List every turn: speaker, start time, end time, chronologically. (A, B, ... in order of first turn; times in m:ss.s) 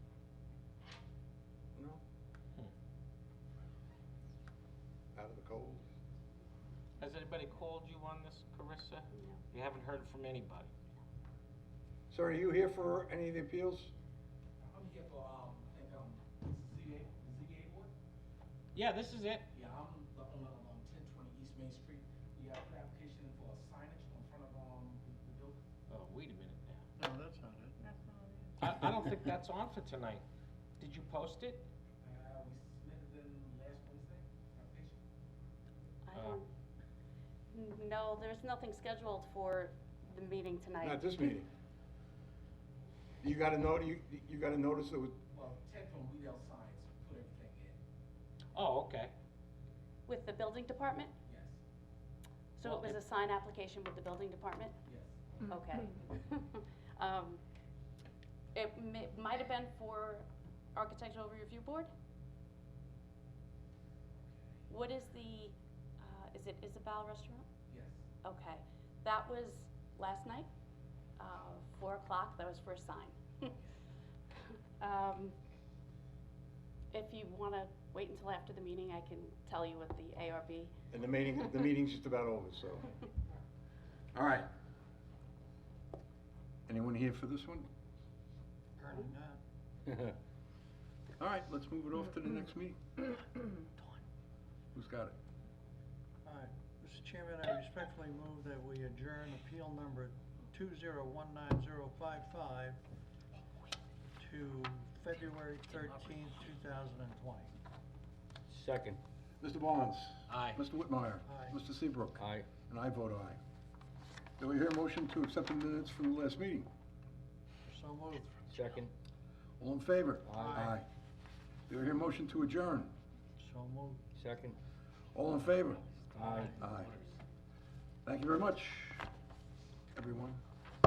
0:01.8-0:02.0 A
0:05.2-0:05.8 A
0:07.0-0:10.7 B
0:12.1-0:13.9 A
0:14.6-0:17.9 C
0:18.7-0:19.5 B
0:19.5-0:25.6 C
0:25.9-0:26.8 B
0:27.0-0:28.1 D
0:28.6-0:30.2 B
0:30.8-0:31.7 B
0:32.0-0:35.0 C
0:36.0-0:36.5 E
0:36.1-0:36.4 B
0:37.5-0:41.1 E
0:40.8-0:41.5 A
0:43.2-0:45.2 A
0:45.3-0:47.8 C
0:48.5-0:49.1 B
0:50.1-0:51.1 E
0:51.3-0:51.6 C
0:52.6-0:54.8 E
0:52.6-0:53.0 B
0:54.9-0:55.2 C
0:55.5-0:57.4 E
0:58.6-1:01.9 E
1:04.7-1:07.4 E
1:07.7-1:08.0 C
1:08.2-1:10.5 E
1:11.2-1:13.5 E
1:14.8-1:15.3 E
1:16.9-1:20.7 E
1:20.9-1:22.9 A
1:24.1-1:24.5 A
1:26.7-1:27.7 A
1:28.8-1:29.4 D
1:31.2-1:32.8 A
1:34.7-1:35.1 A
1:36.2-1:42.8 D
1:44.2-1:47.5 D
1:48.5-1:49.0 F
1:49.4-1:53.4 A
1:50.3-1:50.6 B
1:51.3-1:51.6 D
1:52.2-1:52.5 F
1:54.4-1:56.7 A
1:57.7-1:58.5 D
1:58.5-1:58.9 F
1:59.6-2:00.9 A
2:00.2-2:00.6 F
2:00.4-2:00.8 D
2:01.7-2:02.9 A
2:03.4-2:04.1 D
2:04.2-2:04.6 F
2:05.1-2:05.9 A
2:06.1-2:07.1 B
2:06.2-2:06.6 F
2:06.6-2:06.9 A
2:08.0-2:09.1 A
2:09.9-2:10.4 A